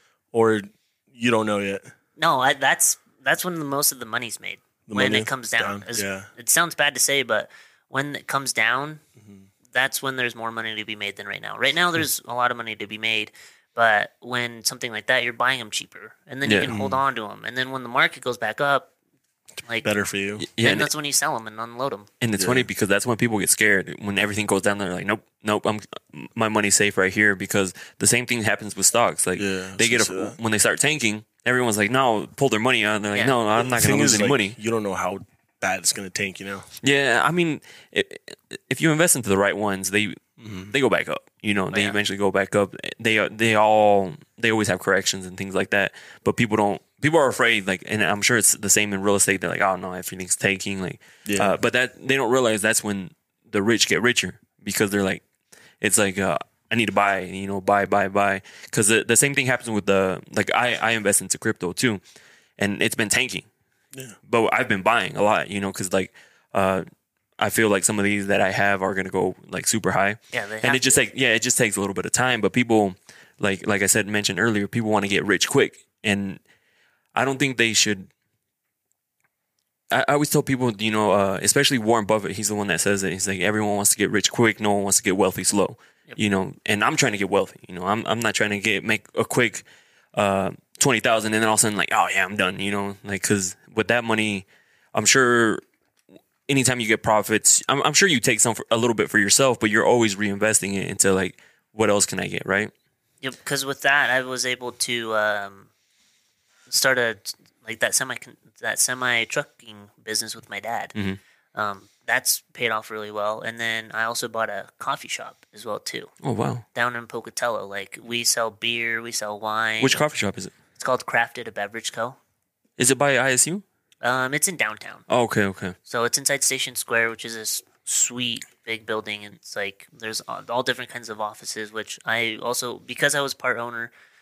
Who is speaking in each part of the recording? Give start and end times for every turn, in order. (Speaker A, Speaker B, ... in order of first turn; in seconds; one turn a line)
Speaker A: 0.3-1.9
Speaker B: 2.2-9.0
Speaker A: 4.9-6.3
Speaker A: 9.2-9.5
Speaker B: 9.7-18.9
Speaker C: 16.4-16.7
Speaker A: 16.7-17.0
Speaker B: 19.6-19.9
Speaker A: 19.8-20.4
Speaker C: 20.4-20.9
Speaker B: 20.6-22.1
Speaker C: 22.2-34.5
Speaker A: 22.4-22.7
Speaker A: 29.4-30.4
Speaker A: 33.6-36.7
Speaker C: 36.8-40.2
Speaker A: 40.4-40.7
Speaker C: 40.7-55.2
Speaker B: 41.7-42.0
Speaker A: 51.2-51.5
Speaker C: 55.8-62.0
Speaker C: 62.6-63.5
Speaker C: 64.2-66.8
Speaker C: 67.4-76.4
Speaker B: 70.3-71.0
Speaker C: 77.1-78.1
Speaker C: 79.9-95.6
Speaker C: 96.5-102.7
Speaker B: 103.2-105.7
Speaker B: 106.7-110.9
Speaker B: 111.5-116.1
Speaker C: 116.2-116.7
Speaker B: 116.7-120.0
Speaker C: 119.8-120.5
Speaker B: 120.8-122.2
Speaker C: 122.8-123.6
Speaker B: 124.0-125.0
Speaker C: 125.1-125.8
Speaker B: 125.8-133.9